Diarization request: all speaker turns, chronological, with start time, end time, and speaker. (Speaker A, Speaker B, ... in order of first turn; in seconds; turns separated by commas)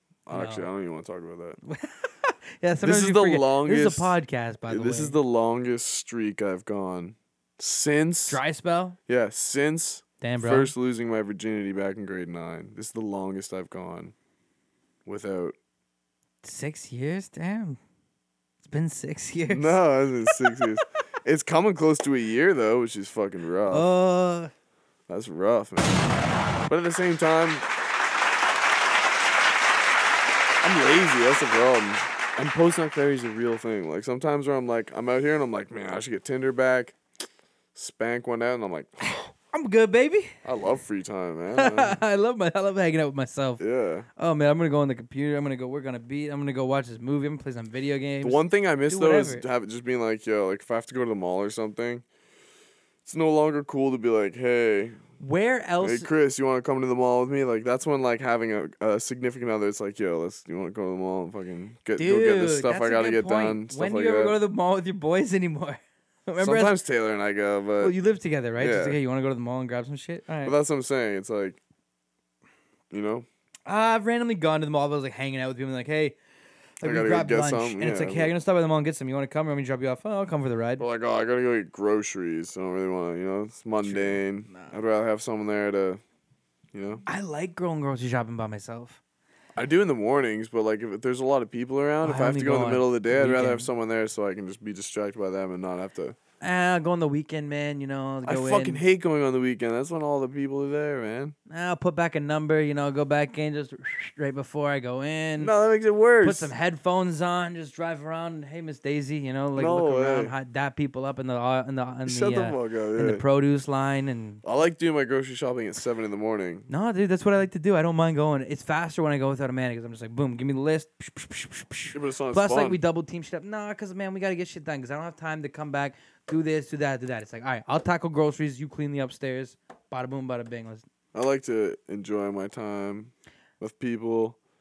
Speaker A: 0.3-1.6, Speaker B: 0.3-0.7, Speaker B: 1.6-5.2, Speaker A: 2.8-4.2, Speaker A: 4.7-8.4, Speaker B: 8.3-9.0, Speaker A: 9.1-14.1, Speaker B: 10.2-10.7, Speaker A: 15.1-15.5, Speaker B: 16.4-17.8, Speaker B: 18.6-20.4, Speaker A: 19.5-23.9, Speaker B: 23.7-24.5, Speaker A: 25.1-26.1, Speaker A: 26.7-27.6, Speaker A: 30.6-37.0, Speaker A: 37.7-39.3, Speaker B: 39.5-40.4, Speaker A: 40.4-42.0, Speaker B: 41.5-43.6, Speaker A: 43.6-44.1, Speaker B: 44.2-49.5, Speaker A: 48.2-52.0, Speaker A: 53.0-55.0, Speaker B: 55.2-56.1, Speaker A: 55.8-64.3, Speaker B: 62.0-66.7, Speaker A: 66.4-67.9, Speaker B: 67.8-70.5, Speaker A: 68.6-69.0, Speaker A: 70.4-71.6, Speaker A: 72.9-73.2, Speaker B: 73.7-76.1, Speaker B: 76.8-80.8, Speaker A: 76.8-78.3, Speaker A: 80.8-86.0, Speaker B: 83.8-84.8, Speaker A: 86.7-87.0, Speaker B: 87.0-89.0, Speaker A: 89.5-96.2, Speaker B: 92.0-93.7, Speaker B: 96.4-98.8, Speaker A: 98.2-101.3, Speaker B: 101.5-105.5, Speaker A: 105.4-106.5, Speaker B: 106.2-114.4, Speaker A: 109.5-110.3, Speaker A: 112.0-113.2, Speaker A: 114.4-116.7, Speaker B: 116.7-130.8, Speaker A: 121.9-122.8, Speaker A: 131.1-134.4